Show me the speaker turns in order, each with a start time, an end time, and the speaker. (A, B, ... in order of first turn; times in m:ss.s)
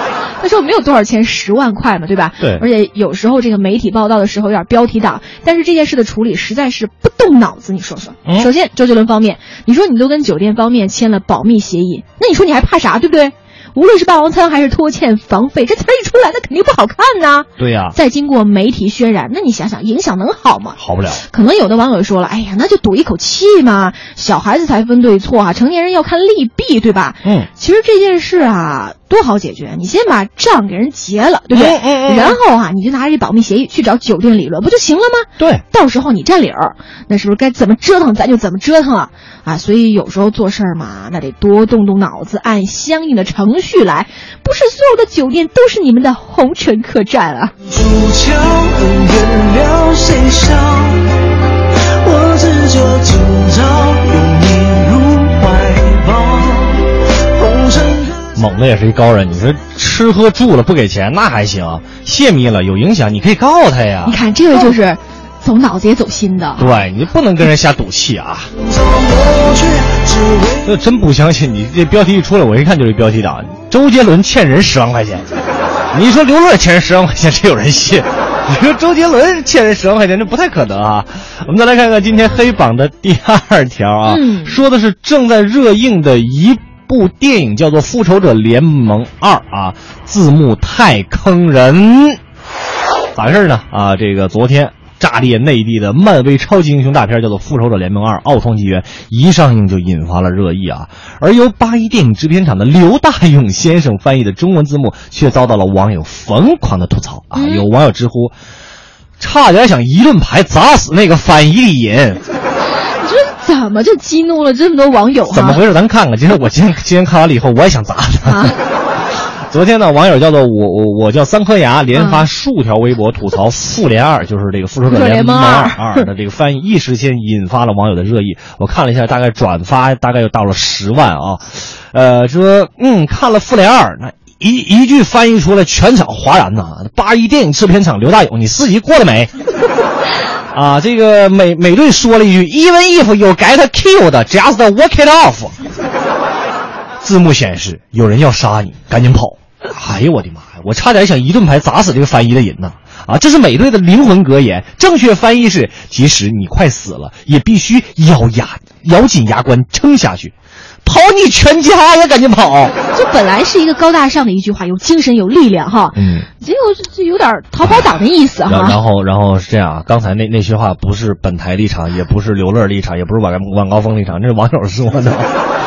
0:00.4-0:47.5 A
0:02.4-0:02.6 B
0:17.6-0:18.0 B
0:20.8-0:21.2 B
0:27.2-0:27.5 B
0:31.5-0:32.4 B
0:35.4-0:35.6 B
0:47.8-0:51.1 C
0:52.0-0:58.2 C
0:58.3-1:04.2 B
1:04.0-1:06.7 A
1:06.6-1:08.5 B
1:08.9-1:10.5 C
1:10.6-1:15.2 B
1:15.9-1:32.2 B
1:24.1-1:24.6 A
1:33.2-1:48.3 B
1:47.4-1:47.7 A
1:49.2-1:52.2 B
1:52.8-1:55.6 A
1:55.3-1:58.6 B
1:58.2-1:58.6 A
1:59.5-2:19.3 B
2:01.9-2:02.2 A
2:04.9-2:06.1 A
2:20.5-2:25.6 B
2:27.0-2:42.8 B
2:42.9-2:48.8 A
2:46.0-2:46.3 B
2:47.6-2:47.9 B
2:48.5-2:55.3 B